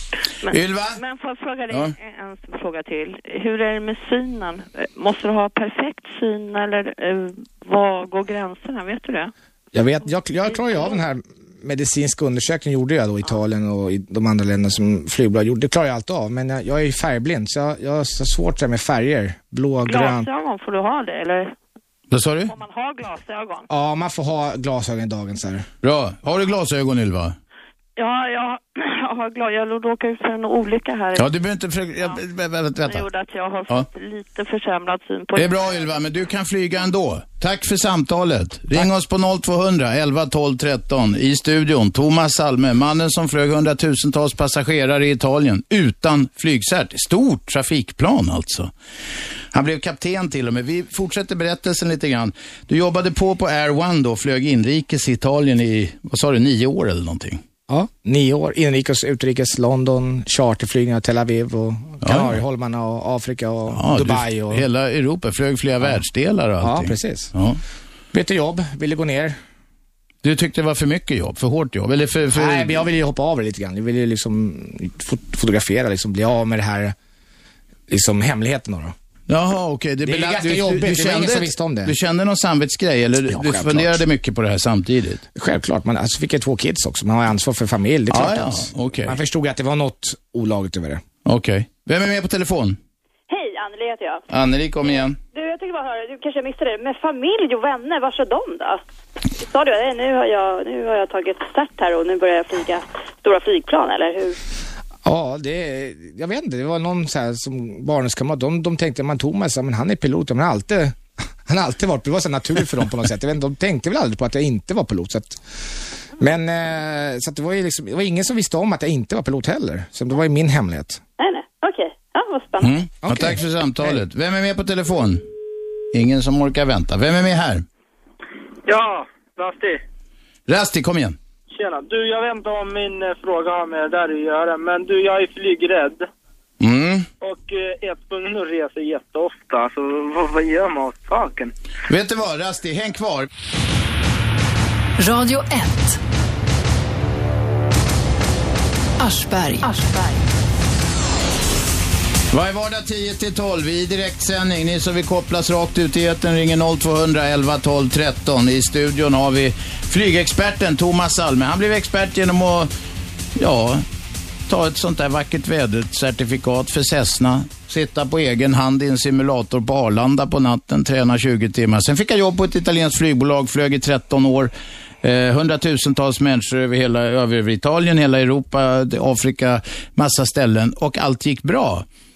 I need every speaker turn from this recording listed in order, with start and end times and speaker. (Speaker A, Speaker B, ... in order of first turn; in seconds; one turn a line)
Speaker A: 0.4-9.3
Speaker B: 0.5-1.0
Speaker C: 9.7-20.2
Speaker A: 10.5-10.9
Speaker A: 19.9-21.5
Speaker B: 22.1-22.5
Speaker A: 22.5-23.7
Speaker C: 23.7-25.7
Speaker B: 25.8-27.3
Speaker A: 28.0-31.3
Speaker B: 31.1-33.0
Speaker A: 32.8-36.0
Speaker B: 35.4-48.7
Speaker B: 49.5-57.4
Speaker C: 57.7-64.7
Speaker B: 62.0-62.4
Speaker B: 63.7-67.6
Speaker C: 66.6-67.3
Speaker C: 68.1-69.4
Speaker B: 70.2-72.8
Speaker C: 72.3-76.9
Speaker C: 77.9-78.9
Speaker B: 79.3-85.2
Speaker C: 80.0-81.9
Speaker C: 83.3-84.0
Speaker C: 85.3-91.0
Speaker B: 88.1-89.2
Speaker B: 91.2-92.8
Speaker D: 93.3-94.2
Speaker B: 94.3-95.2
Speaker D: 95.3-98.8
Speaker D: 99.4-104.4
Speaker C: 105.0-115.4
Speaker C: 116.2-121.0
Speaker D: 121.2-122.7
Speaker B: 122.6-125.2
Speaker C: 123.0-124.0
Speaker B: 125.9-127.6
Speaker E: 128.7-129.8
Speaker B: 130.5-131.2
Speaker E: 131.5-136.1
Speaker B: 136.6-137.1
Speaker E: 137.2-141.5
Speaker B: 141.9-143.3
Speaker F: 145.0-146.0
Speaker F: 149.0-150.3
Speaker B: 152.3-162.7
Speaker B: 163.3-163.8
Speaker B: 164.5-181.8